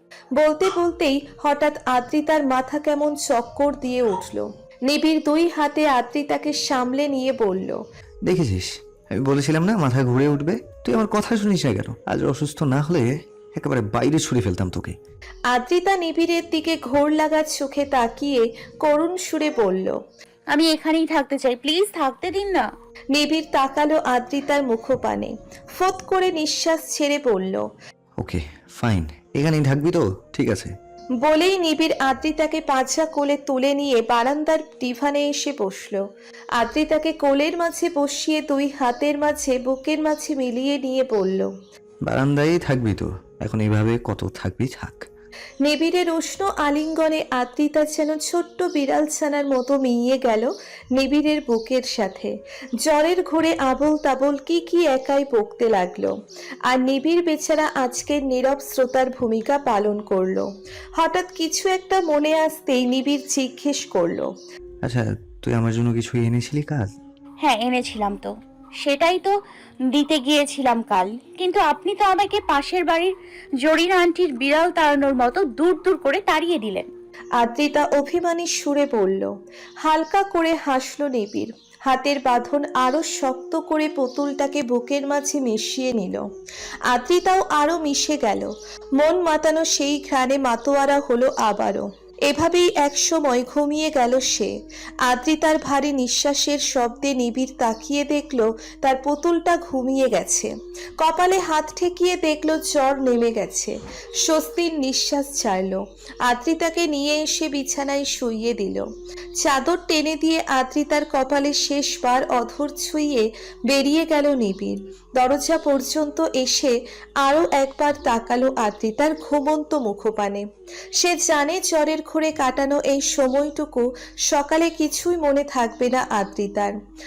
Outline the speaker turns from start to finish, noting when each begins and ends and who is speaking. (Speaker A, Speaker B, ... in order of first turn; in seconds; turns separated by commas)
Speaker A: 0.3-7.8, Speaker B: 8.2-14.9, Speaker A: 15.5-20.0, Speaker C: 20.5-22.6, Speaker A: 23.1-27.6, Speaker B: 28.2-30.7, Speaker A: 31.2-36.0, Speaker A: 36.6-41.5, Speaker B: 42.0-45.0, Speaker A: 45.6-56.1, Speaker A: 56.7-64.3, Speaker B: 64.8-66.9, Speaker C: 67.4-69.3, Speaker C: 69.9-76.9, Speaker A: 77.4-79.3, Speaker A: 79.8-86.2, Speaker A: 86.9-94.5, Speaker A: 95.0-108.8, Speaker A: 109.4-120.4, Speaker A: 121.0-126.7